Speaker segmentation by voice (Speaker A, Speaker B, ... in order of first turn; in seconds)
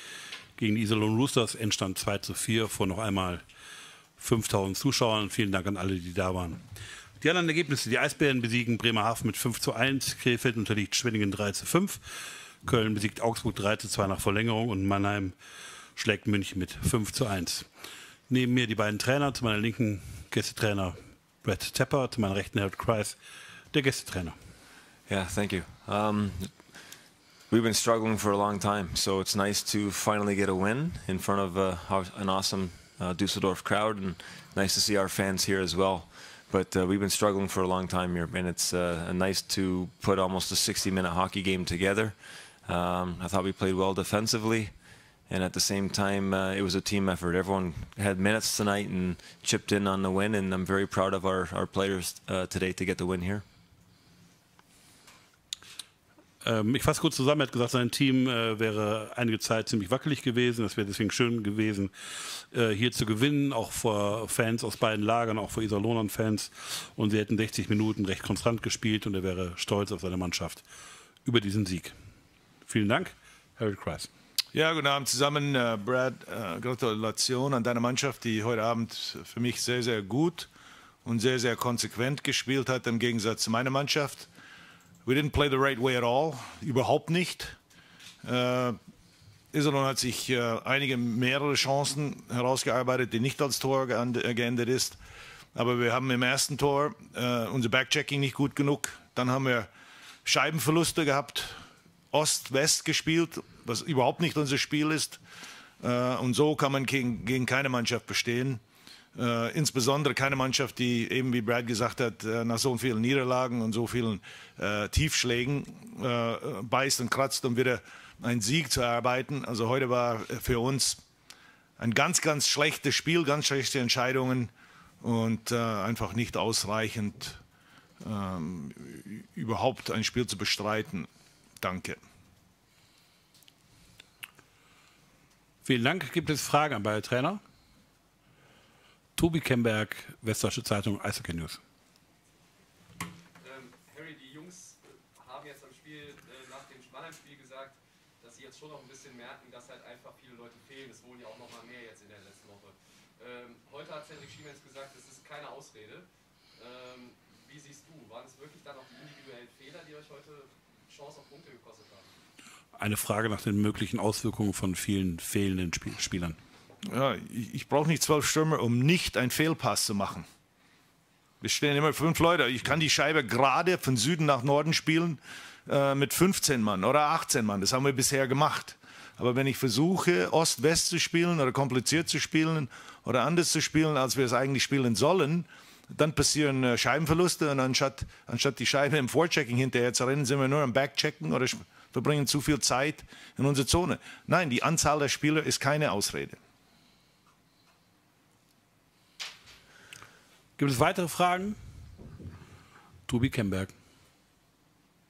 Speaker A: 0.6-3.4, 4.2-6.6, 7.2-15.3, 15.9-17.7, 18.3-23.2, 23.7-24.4, 56.4-70.6, 71.2-71.9, 72.6-74.1, 135.6-137.4, 139.1-141.6, 162.8-166.4, 200.6-201.6, 203.1-203.7
Speaker B: 25.1-26.8, 27.5-44.8, 45.3-53.4
Speaker C: 74.5-80.5, 81.0-84.3, 85.0-87.5, 88.2-88.8, 89.5-95.0, 95.5-99.7, 100.2-101.6, 102.1-105.2, 105.8-108.6, 109.1-121.0, 121.8-127.4, 128.0-131.1, 131.6-132.0, 166.8-170.2, 171.4-196.4
Speaker D: 143.4-162.1